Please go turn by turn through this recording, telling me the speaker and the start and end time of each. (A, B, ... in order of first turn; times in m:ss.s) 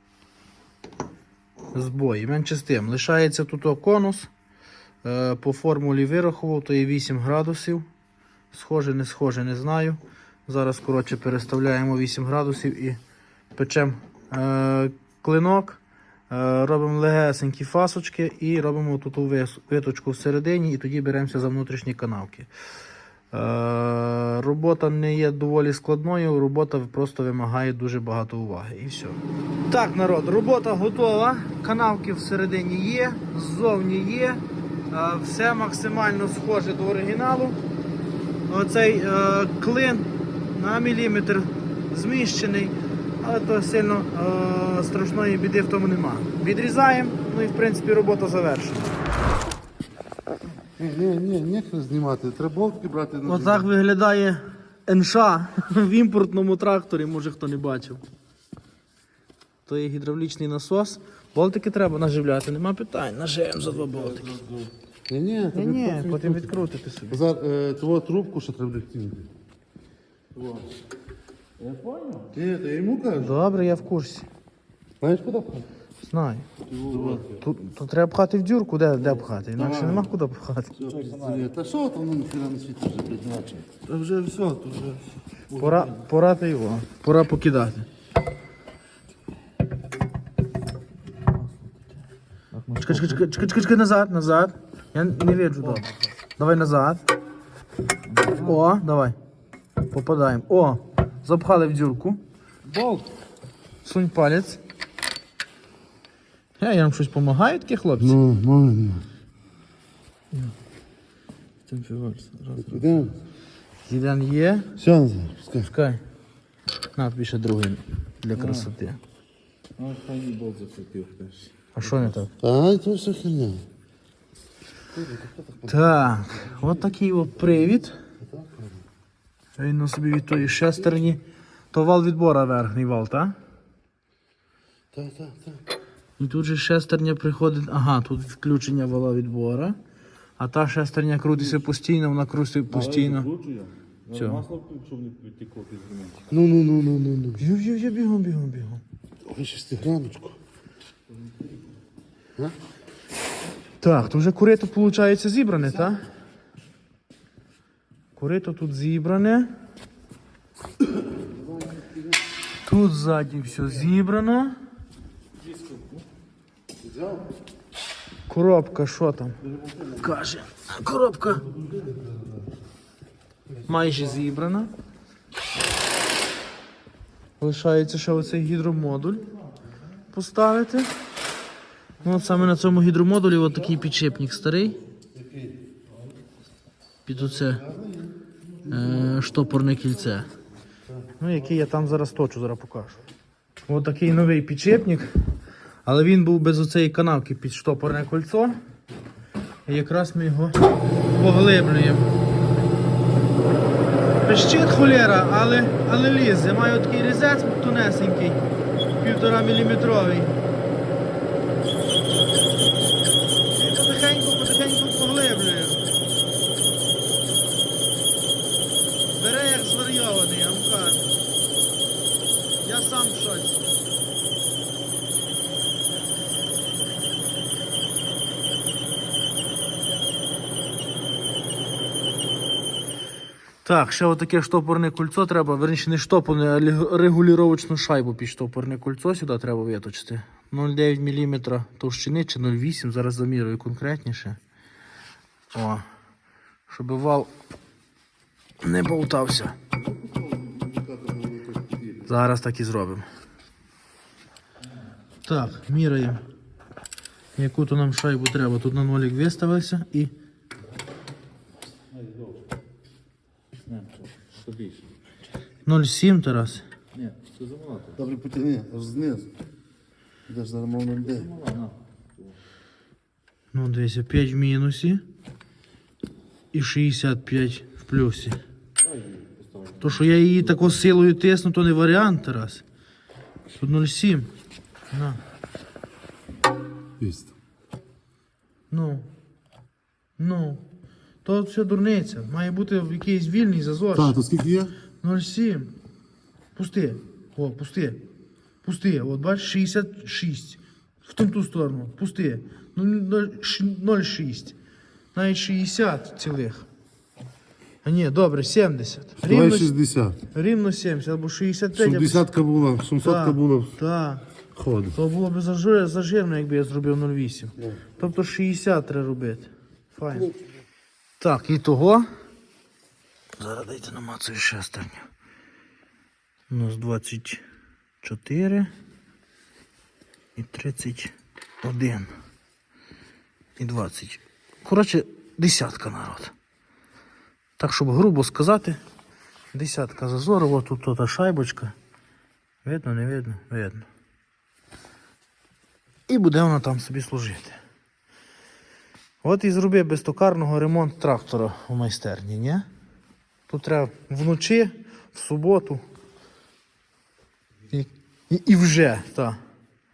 0:01.7-0:04.3 A
0:05.0-0:07.8 A
0:08.5-0:13.0 A
0:13.5-0:22.5 A
0:23.3-0:37.6 A
0:38.5-0:49.0 A
0:50.8-0:53.7 B
0:53.2-0:58.0 A
0:59.6-1:04.4 A
1:05.1-1:06.4 B
1:05.5-1:07.2 A
1:07.1-1:09.3 B
1:11.6-1:12.3 C
1:12.3-1:13.3 B
1:13.1-1:14.3 A
1:15.0-1:15.6 B
1:16.0-1:16.4 A
1:16.8-1:17.2 C
1:16.8-1:17.2 B
1:17.2-1:20.8 A
1:19.6-1:20.0 B
1:20.8-1:21.5 C
1:20.8-1:25.0 B
1:25.5-1:27.9 A
1:32.5-1:33.0 C
1:32.8-1:37.0 A
1:38.1-1:38.5 C
1:38.4-1:39.2 A
1:39.9-1:42.2 A
1:42.7-1:43.0 C
1:43.8-1:44.6 A
1:46.6-1:48.2 A
1:48.0-1:49.0 B
1:51.7-1:53.0 A
1:52.6-1:53.1 B
1:53.8-1:54.8 A
1:54.8-1:55.7 B
1:55.6-1:56.0 A
1:56.9-1:59.0 A
1:58.4-1:58.6 C
1:59.8-2:01.7 C
2:01.7-2:02.3 A
2:02.4-2:03.6 B
2:05.0-2:05.7 B
2:05.6-2:07.9 A
2:08.2-2:08.8 B
2:09.6-2:13.3 A
2:14.9-2:15.6 B
2:16.2-2:19.8 A
2:20.4-2:23.3 A
2:22.8-2:26.2 C
2:24.1-2:24.4 A
2:26.3-2:27.4 B
2:27.4-2:28.8 A
2:29.2-2:30.4 B
2:33.8-2:36.0 A
2:38.2-2:39.5 A
2:42.6-2:44.6 A
2:48.3-2:51.6 A
2:53.6-2:54.7 A
2:57.4-2:59.2 A
3:00.1-3:01.0 A
3:02.0-3:04.8 A
3:07.0-3:07.7 A
3:08.6-3:10.3 A
3:11.2-3:13.0 A
3:13.6-3:15.2 A
3:15.8-3:18.6 A
3:19.6-3:20.6 A
3:21.1-3:22.1 A
3:24.2-3:30.4 A
3:33.5-3:35.9 A
3:39.1-3:41.1 A
3:42.6-3:43.6 A
3:53.6-4:04.4 A
4:05.5-4:05.8 A
4:06.7-4:07.3 A
4:08.6-4:09.6 A
4:10.2-4:11.9 B
4:12.0-4:13.0 A
4:15.2-4:16.2 A
4:17.4-4:20.1 A
4:23.7-4:24.8 C
4:25.6-4:26.6 A
4:27.0-4:28.0 C
4:28.0-4:29.3 B
4:30.3-4:31.3 B
4:31.0-4:31.7 C
4:33.5-4:35.0 A
4:36.5-4:38.4 A
4:38.9-4:39.8 C
4:39.8-4:42.6 A
4:43.5-4:44.3 A
4:44.9-4:45.2 A
4:47.0-4:47.3 B
4:48.7-4:49.1 A
4:50.2-4:50.6 A
4:51.2-4:54.2 A
4:54.0-4:54.7 B
4:55.0-4:55.7 A
4:56.6-4:58.0 A
4:58.6-5:04.5 A
5:05.1-5:06.6 A
5:07.8-5:09.7 A
5:09.2-5:10.2 B
5:10.3-5:12.3 A
5:11.8-5:13.7 B
5:13.0-5:14.2 A
5:14.6-5:14.9 B
5:14.9-5:20.3 A
5:21.2-5:22.1 A
5:23.4-5:25.1 A
5:26.5-5:27.4 A
5:28.0-5:28.7 A
5:30.4-5:32.1 A
5:33.6-5:36.3 A
5:37.6-5:38.8 A
5:39.5-5:41.7 A
5:42.6-5:43.9 A
5:46.1-5:47.6 A
5:49.2-5:52.6 A
5:53.5-5:55.8 A
5:57.7-5:59.4 A